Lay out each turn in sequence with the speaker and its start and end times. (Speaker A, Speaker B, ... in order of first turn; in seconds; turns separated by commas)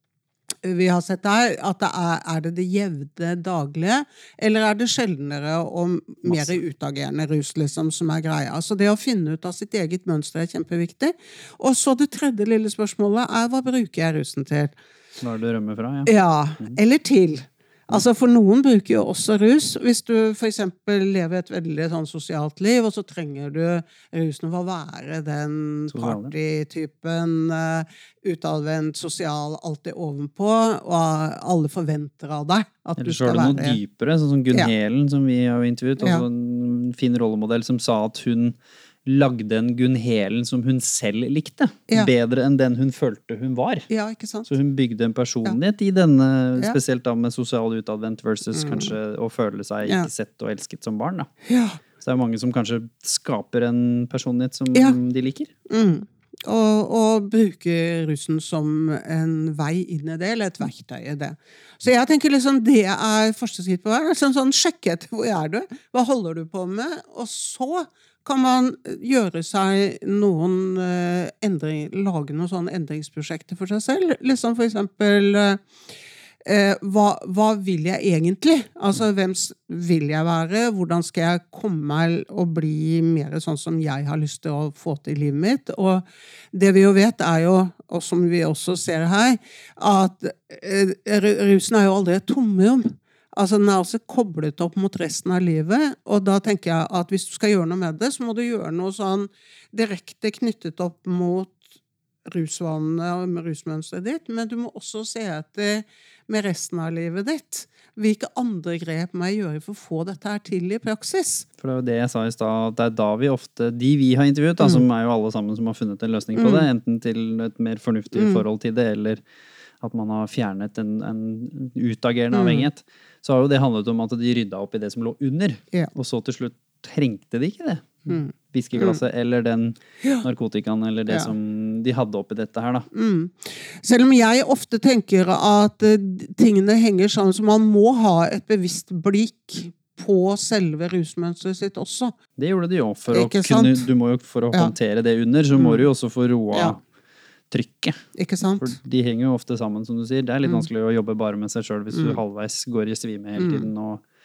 Speaker A: 0.6-14.7, Speaker B: 6.2-6.6, Speaker B: 15.2-16.8, Speaker A: 16.1-33.8, Speaker B: 25.9-26.4, Speaker B: 33.0-38.5, Speaker A: 36.0-36.2, Speaker B: 39.1-43.9, Speaker A: 43.9-44.5, Speaker B: 44.5-51.3, Speaker A: 48.5-48.9, Speaker A: 51.5-51.8, Speaker B: 52.0-55.5, Speaker A: 55.7-75.6, Speaker A: 76.5-101.7, Speaker A: 102.3-111.5, Speaker B: 111.6-119.2, Speaker A: 116.4-116.7, Speaker A: 118.1-118.4, Speaker B: 119.8-132.9, Speaker A: 122.3-122.7, Speaker A: 128.1-129.0, Speaker A: 132.9-142.1, Speaker B: 142.4-146.8, Speaker A: 143.1-143.9, Speaker A: 145.6-145.9, Speaker B: 147.5-148.0, Speaker A: 148.2-148.8, Speaker B: 148.6-154.0, Speaker A: 151.9-152.2, Speaker A: 153.4-153.7